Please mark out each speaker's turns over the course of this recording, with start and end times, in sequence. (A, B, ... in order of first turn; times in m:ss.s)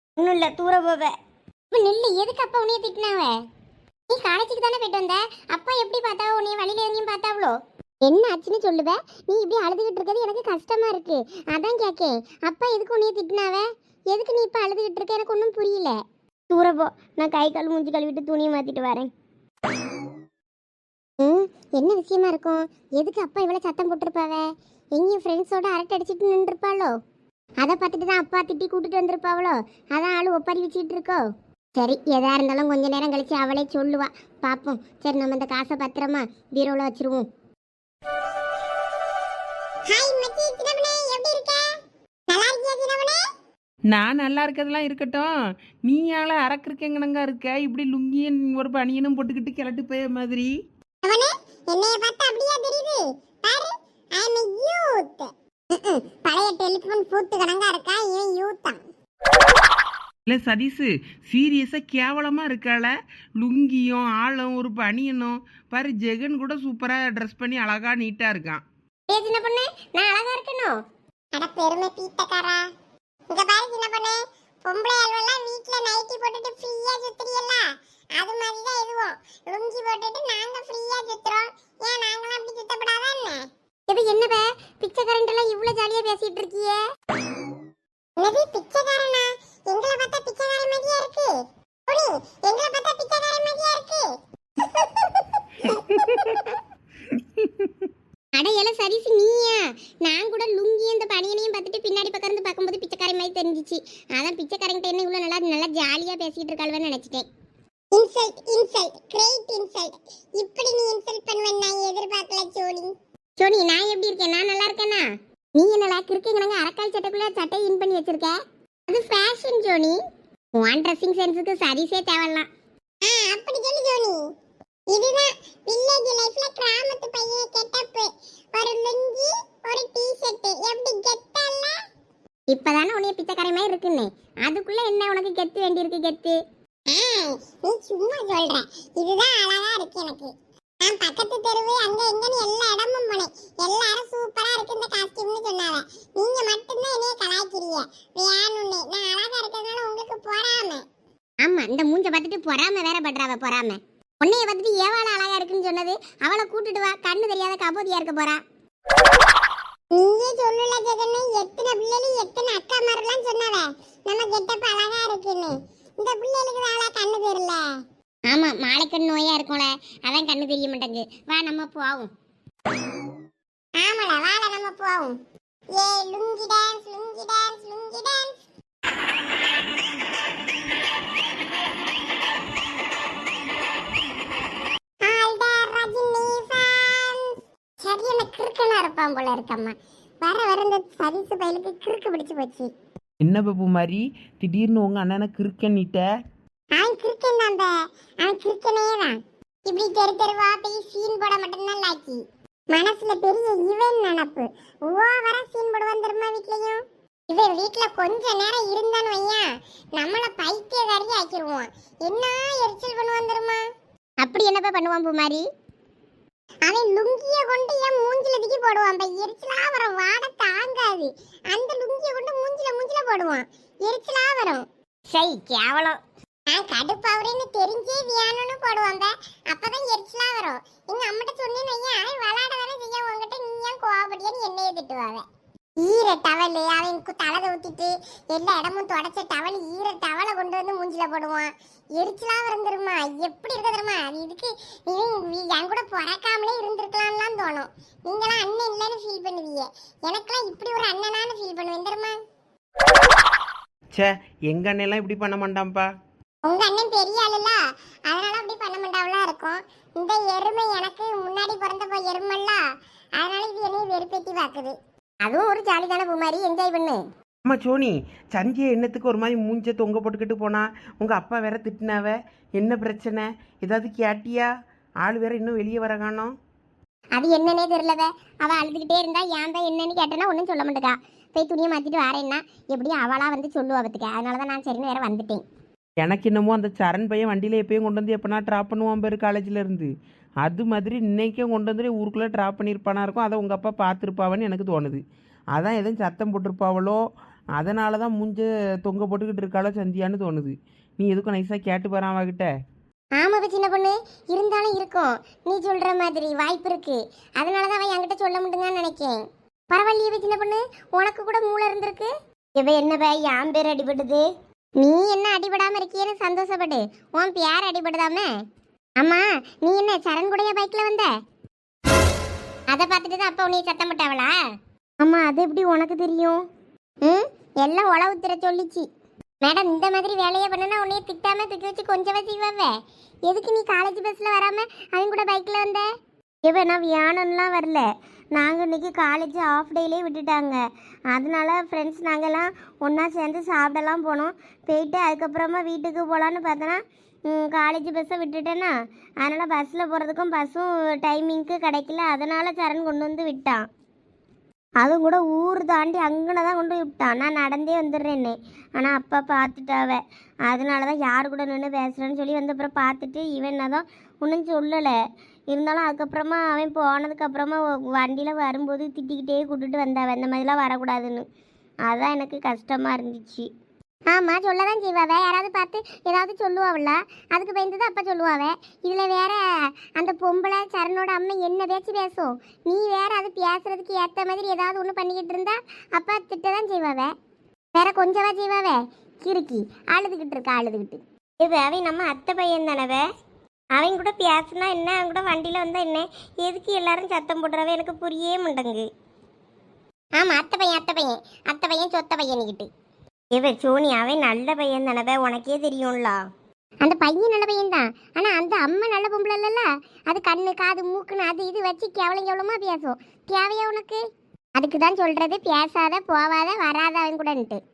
0:00.2-0:01.1 A
0:01.7-0:03.3 B
0:04.1-0:16.0 B
0:16.5-0:19.1 A
0:21.2-0:26.9 B
0:27.6-0:31.2 B
0:31.7-0:37.2 B
0:39.9-0:41.7 B
0:42.3-0:43.2 B
0:43.9-0:45.3 C
0:45.8-0:50.5 C
0:51.0-0:58.8 B
1:00.3-1:08.6 C
1:09.1-1:10.8 B
1:11.4-1:12.6 B
1:13.3-1:26.8 B
1:28.2-1:31.3 B
1:31.9-1:36.5 B
1:36.0-1:36.5 C
1:37.4-1:37.7 C
1:38.3-1:47.2 B
1:47.9-2:00.0 B
2:00.5-2:02.5 B
2:03.0-2:04.3 B
2:04.9-2:11.8 B
2:12.5-2:16.4 B
2:16.9-2:30.8 B
2:31.4-2:38.4 B
2:39.9-2:47.6 B
2:48.3-2:52.1 B
2:53.8-2:55.2 B
2:55.7-2:58.4 B
3:05.0-3:12.7 B
3:13.2-3:16.0 C
3:16.7-3:33.6 B
3:34.2-3:35.4 B
3:36.6-3:46.0 B
3:46.5-3:55.2 B
3:55.8-4:12.2 B
4:13.9-4:15.9 C
4:16.4-4:22.6 B
4:23.2-4:27.0 B
4:27.4-4:34.5 C
4:35.0-4:36.3 C
4:37.1-4:45.4 B
4:46.0-4:49.9 C
4:50.4-4:55.0 C
4:55.5-4:57.0 C
4:57.6-5:02.5 C
5:03.2-5:12.1 B
5:12.6-5:14.2 A
5:14.8-5:18.3 B
5:19.0-5:21.1 B
5:22.7-5:24.4 B
5:25.0-5:26.4 A
5:27.0-5:28.8 B
5:29.4-5:32.7 B
5:33.3-5:35.9 B
5:36.4-5:40.6 A
5:41.1-5:53.7 A
5:54.8-6:05.0 A
6:05.5-6:11.2 A
6:11.8-6:13.5 A
6:14.1-6:27.1 B
6:27.7-6:31.0 B
6:31.4-6:33.0 A
6:33.7-6:38.9 A
6:40.2-6:42.7 B
6:43.3-6:46.2 A
6:46.8-6:54.0 B
6:54.6-6:57.6 B